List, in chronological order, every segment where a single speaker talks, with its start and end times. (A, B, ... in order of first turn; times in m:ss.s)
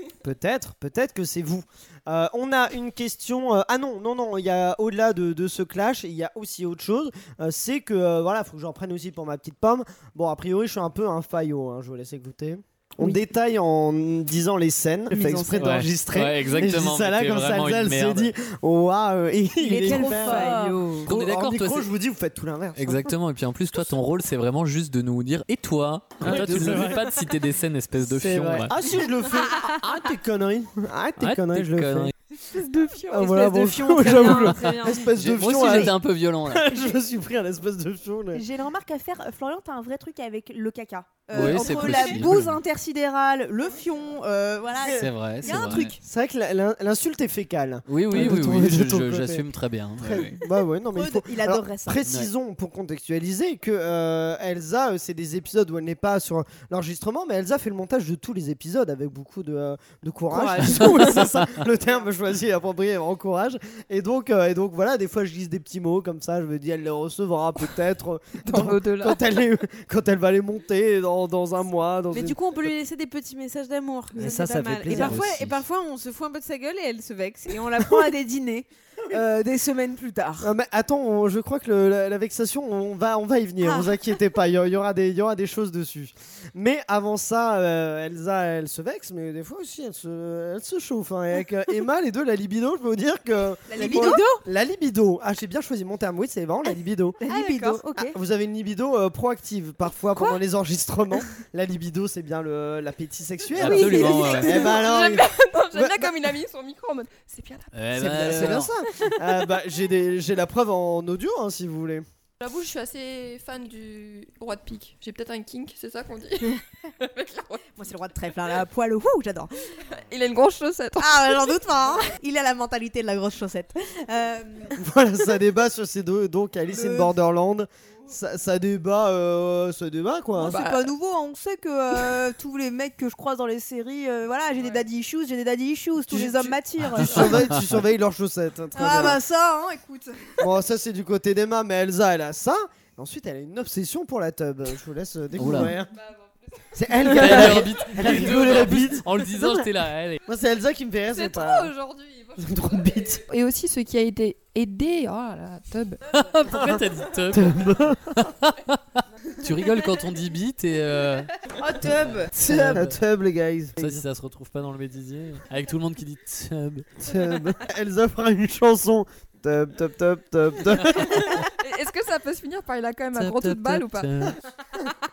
0:00.2-0:20.5 A
0:15.1-0:15.6 B
0:15.6-0:18.3 C
0:19.6-0:20.9 D
0:19.7-0:21.1 B
0:21.0-0:21.9 C
0:21.0-0:23.1 A
0:22.8-0:28.7 C
0:26.2-0:27.1 A
0:28.0-0:32.1 A
0:31.2-0:32.1 C
0:32.4-0:33.6 E
0:33.1-0:38.4 A
0:33.2-0:35.0 B
0:35.1-0:36.8 C
0:38.3-0:46.0 D
0:41.3-0:42.2 B
0:41.3-0:42.6 C
0:44.8-0:49.4 A
0:45.0-0:46.0 C
0:47.9-0:50.4 C
0:50.0-1:12.4 A
0:50.9-0:52.0 D
1:00.3-1:01.3 B
1:08.4-1:09.2 E
1:12.1-1:20.5 B
1:14.2-1:15.2 A
1:14.9-1:15.6 C
1:20.4-1:37.2 A
1:33.7-1:34.2 D
1:33.7-1:34.4 B
1:37.2-1:38.2 D
1:37.3-1:37.8 B
1:38.0-1:46.1 A
1:43.6-1:44.7 C
1:43.6-1:44.7 D
1:43.8-1:44.2 B
1:44.0-1:47.7 E
1:47.7-1:48.7 C
1:47.9-1:52.0 A
1:52.4-1:57.6 E
1:57.8-1:59.5 D
1:59.9-2:01.6 E
2:01.0-2:04.8 D
2:04.8-2:10.6 A
2:10.4-2:17.4 D
2:10.4-2:10.8 E
2:16.1-2:19.2 A
2:17.0-2:17.7 C
2:18.7-2:20.4 D
2:20.4-2:26.0 A
2:25.4-2:25.7 C
2:26.0-2:27.6 E
2:26.7-2:29.6 A
2:27.1-2:30.2 C
2:30.2-2:31.7 A
2:31.1-2:36.0 E
2:32.4-2:33.2 A
2:36.0-2:43.0 C
2:37.3-2:38.2 A
2:41.5-2:42.3 B
2:42.4-2:44.0 A
2:43.8-2:47.0 C
2:47.0-2:51.5 A
2:51.3-2:54.1 E
2:53.1-2:54.4 C